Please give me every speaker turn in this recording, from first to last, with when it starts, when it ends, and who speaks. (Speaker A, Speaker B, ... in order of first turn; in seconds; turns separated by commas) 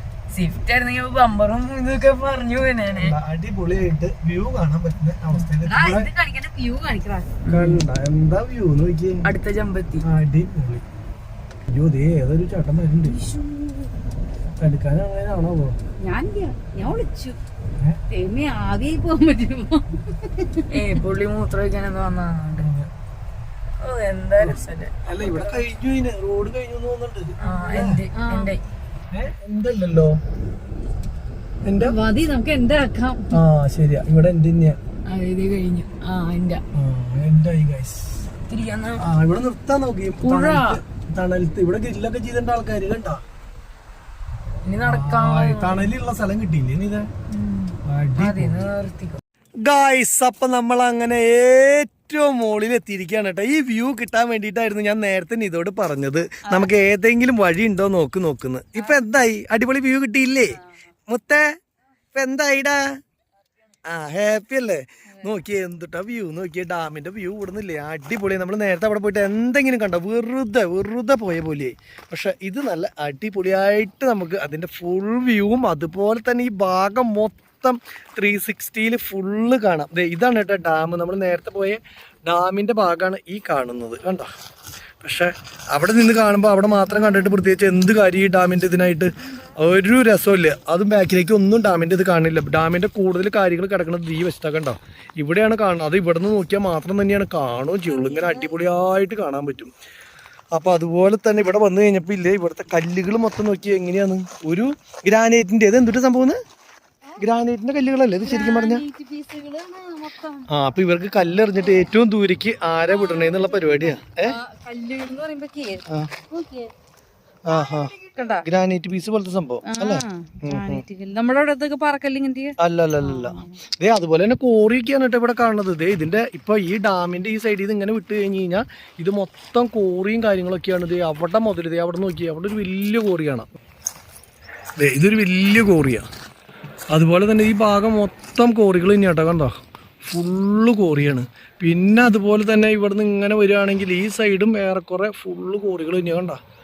Speaker A: 0.3-3.2, Speaker B: 2.9-6.1, Speaker C: 5.6-7.3, Speaker A: 7.4-7.8, Speaker B: 7.5-9.3, Speaker A: 9.2-10.1, Speaker B: 10.0-10.8, Speaker B: 11.7-13.2, Speaker C: 13.1-13.9, Speaker B: 14.6-15.8, Speaker C: 16.0-17.4, Speaker C: 18.1-20.7, Speaker A: 20.7-22.7, Speaker B: 22.6-22.9, Speaker A: 23.8-25.6, Speaker B: 24.4-28.0, Speaker A: 27.4-28.6, Speaker C: 27.4-28.5, Speaker B: 29.1-30.2, Speaker B: 31.6-31.9, Speaker C: 31.8-33.4, Speaker B: 33.3-34.8, Speaker A: 35.1-36.6, Speaker B: 36.7-38.2, Speaker A: 38.5-39.0, Speaker B: 39.0-43.2, Speaker A: 40.2-40.8, Speaker A: 44.6-45.9, Speaker B: 44.8-47.1, Speaker A: 47.3-49.2, Speaker B: 47.8-48.7, Speaker B: 49.6-61.5, Speaker B: 62.1-63.0, Speaker B: 63.9-84.3, Speaker B: 85.0-99.7, Speaker C: 97.9-98.5, Speaker B: 100.5-106.4, Speaker B: 107.2-108.8, Speaker C: 108.2-110.5, Speaker B: 110.5-114.3, Speaker C: 112.9-116.7, Speaker B: 117.5-120.8, Speaker C: 117.5-118.5, Speaker C: 119.6-123.6, Speaker B: 122.6-133.5, Speaker B: 134.8-136.1, Speaker B: 136.9-146.4